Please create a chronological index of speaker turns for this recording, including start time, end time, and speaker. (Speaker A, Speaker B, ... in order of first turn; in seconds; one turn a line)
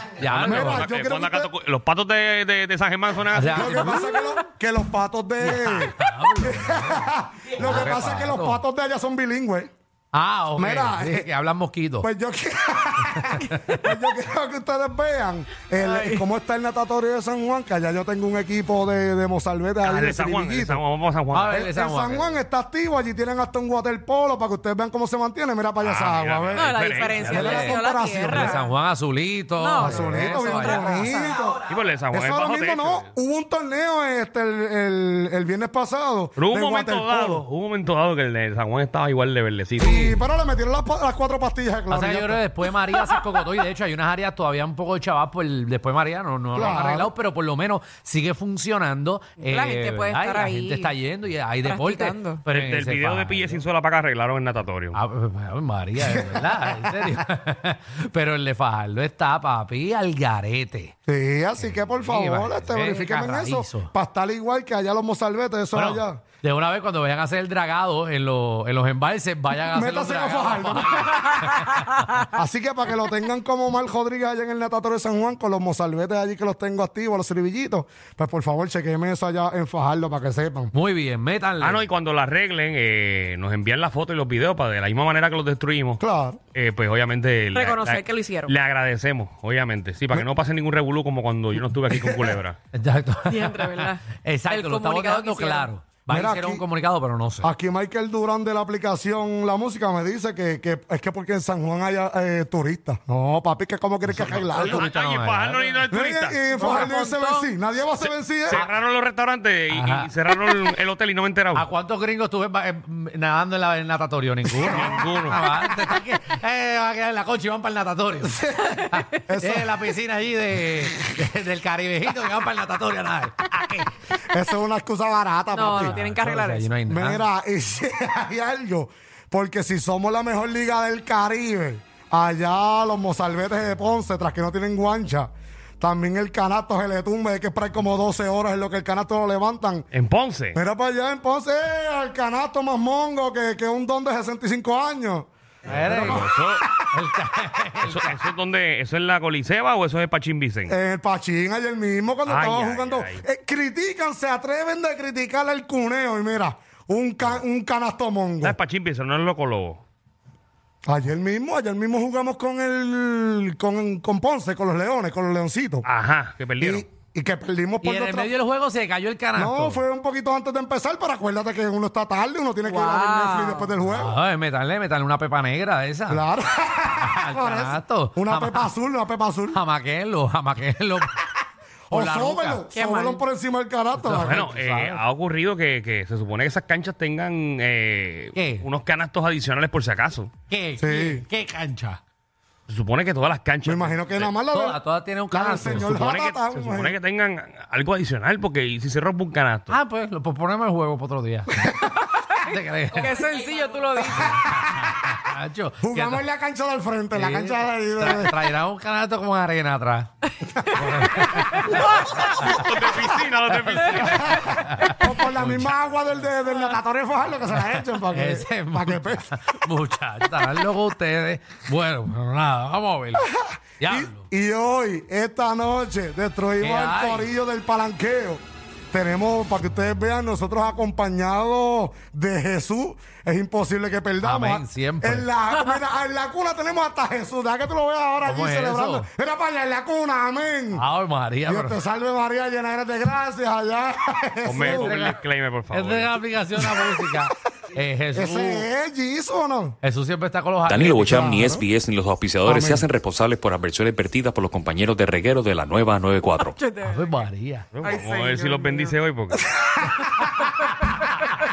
Speaker A: 0.2-0.9
Speaker B: 0.2-4.0
Speaker C: 0.3-1.5
Speaker A: 3.3-4.1
Speaker C: 3.5-9.7
Speaker D: 3.9-4.4
Speaker A: 5.4-8.6
Speaker A: 10.1-12.1
Speaker C: 10.6-11.3
Speaker C: 12.0-20.8
Speaker D: 15.8-16.3
Speaker B: 19.8-21.6
Speaker A: 21.3-22.4
Speaker C: 21.5-28.6
Speaker B: 25.8-27.5
Speaker D: 26.5-28.7
Speaker A: 27.2-31.1
Speaker D: 29.6-31.3
Speaker C: 29.8-37.5
Speaker B: 31.7-33.1
Speaker B: 36.4-40.2
Speaker C: 39.8-42.4
Speaker A: 41.9-53.6
Speaker C: 46.5-47.1
Speaker D: 49.4-50.9
Speaker D: 51.6-52.4
Speaker B: 52.5-55.0
Speaker A: 54.9-60.9
Speaker C: 56.0-57.1
Speaker C: 61.1-66.2
Speaker A: 61.6-63.9
Speaker A: 65.7-72.2
Speaker C: 69.7-71.4
Speaker C: 72.3-80.7
Speaker A: 80.7-81.8
Speaker B: 81.6-86.0
Speaker C: 86.0-86.4
Speaker B: 86.5-92.6
Speaker D: 87.5-88.5
Speaker C: 91.9-92.4
Speaker A: 92.7-97.5
Speaker D: 93.3-95.7
Speaker C: 96.1-96.6
Speaker C: 97.4-104.8
Speaker A: 104.0-105.9
Speaker B: 104.5-106.7
Speaker C: 105.9-108.6
Speaker D: 106.6-107.5
Speaker B: 108.0-111.7
Speaker A: 109.7-110.1
Speaker A: 111.5-123.9
Speaker B: 114.6-115.4
Speaker C: 118.2-119.9
Speaker C: 124.3-126.0
Speaker D: 125.5-126.7
Speaker A: 125.7-127.2
Speaker C: 126.9-139.9
Speaker B: 139.9-140.6
Speaker C: 140.5-146.9
Speaker A: 145.7-146.3
Speaker B: 145.7-146.6
Speaker A: 146.9-148.2
Speaker B: 147.8-150.8
Speaker C: 150.7-158.6
Speaker B: 152.3-153.2
Speaker B: 158.4-159.8
Speaker C: 160.9-165.9
Speaker B: 165.8-166.9
Speaker C: 166.6-168.3
Speaker A: 167.8-169.8
Speaker C: 169.3-174.2
Speaker D: 172.6-173.8
Speaker A: 173.9-176.3
Speaker C: 176.1-179.6
Speaker A: 177.0-178.7
Speaker A: 179.5-181.2
Speaker C: 181.9-184.5
Speaker A: 181.9-182.7
Speaker D: 182.7-183.2
Speaker A: 183.9-185.0
Speaker B: 184.2-190.3
Speaker A: 188.3-188.7
Speaker A: 190.5-192.0
Speaker C: 190.8-191.3
Speaker B: 192.7-194.3
Speaker C: 193.6-194.8
Speaker A: 194.5-196.0
Speaker C: 195.3-197.0
Speaker B: 195.7-199.8
Speaker A: 199.7-201.5
Speaker A: 202.4-203.2
Speaker D: 202.9-204.7
Speaker A: 204.2-206.2
Speaker C: 205.8-208.4
Speaker A: 207.1-210.1
Speaker C: 210.6-211.3
Speaker A: 210.7-212.6
Speaker B: 212.1-214.6
Speaker A: 213.5-215.7
Speaker C: 214.1-219.4
Speaker A: 217.8-223.3
Speaker C: 223.2-240.8
Speaker A: 223.8-224.2
Speaker A: 226.6-227.3
Speaker A: 234.2-235.3
Speaker A: 238.2-239.1
Speaker A: 240.7-241.8
Speaker C: 241.5-245.1
Speaker B: 244.4-246.2
Speaker A: 244.6-248.7
Speaker C: 246.6-247.1
Speaker C: 248.1-249.8
Speaker A: 249.8-251.3
Speaker E: 250.7-256.6
Speaker C: 251.0-251.7
Speaker C: 252.4-252.9
Speaker D: 256.5-257.2
Speaker A: 256.8-257.7
Speaker B: 257.8-259.5
Speaker D: 257.8-259.0
Speaker C: 259.5-260.0